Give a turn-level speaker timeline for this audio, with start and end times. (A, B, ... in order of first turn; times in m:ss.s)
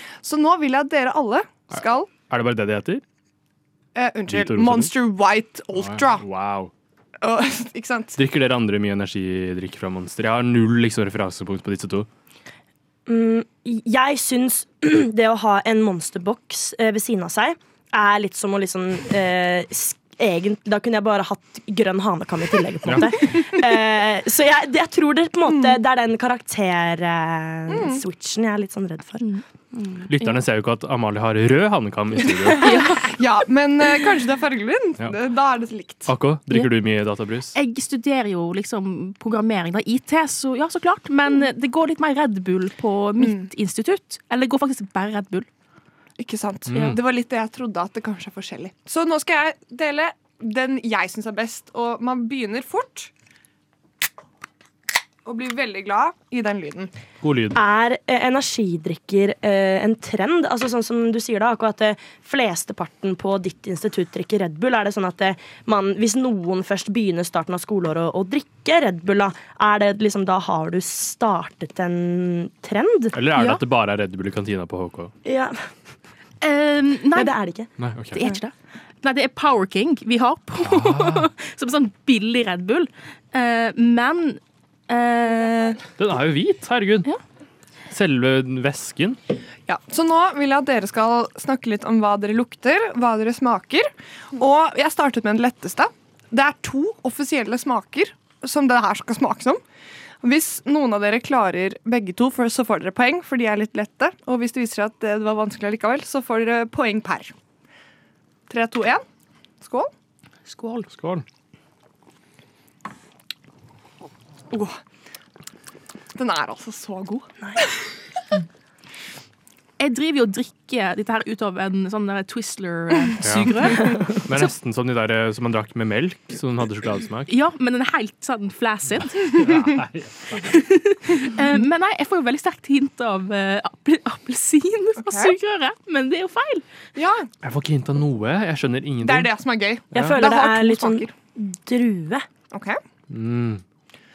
0:00.2-0:02.1 A
0:01.7-0:03.0 B
0:03.9-0:06.2 A
0:04.3-0:04.9 B
0:05.7-0:06.7 B
0:07.2-0:08.2 A
0:08.2-0:12.1 B
0:13.1-0:30.0 C
0:22.8-0:23.2 B
0:25.5-0:25.8 A
0:27.7-0:28.0 A
0:30.0-0:32.8 B
0:32.6-0:33.1 D
0:32.6-0:36.1 A
0:36.0-0:37.6 B
0:37.5-0:45.5 D
0:43.2-0:43.5 A
0:46.2-0:53.1 A
0:46.7-0:47.0 B
0:55.2-0:56.9 A
0:57.2-0:57.6 B
0:57.5-1:13.2 C
1:13.1-1:15.1 B
1:13.3-1:13.6 D
1:15.2-1:15.6 C
1:16.4-1:17.4 D
1:17.1-1:17.7 C
1:17.8-1:18.2 B
1:18.1-1:25.8 D
1:20.6-1:21.3 B
1:26.0-1:27.1 B
1:27.9-1:29.2 B
1:29.7-1:39.6 A
1:40.2-1:47.3 A
1:48.5-1:49.0 A
1:49.6-1:49.9 A
1:50.5-1:50.9 D
1:50.9-1:51.2 B
1:54.5-1:54.8 A
1:56.1-1:57.8 A
1:59.8-2:04.5 D
2:03.2-2:07.3 B
2:07.3-2:09.4 D
2:09.3-2:10.5 B
2:10.4-2:16.6 D
2:15.0-2:15.3 A
2:17.0-2:17.3 A
2:17.4-2:19.3 B
2:19.0-2:21.1 A
2:19.9-2:22.2 C
2:22.5-2:22.8 A
2:23.1-2:23.6 B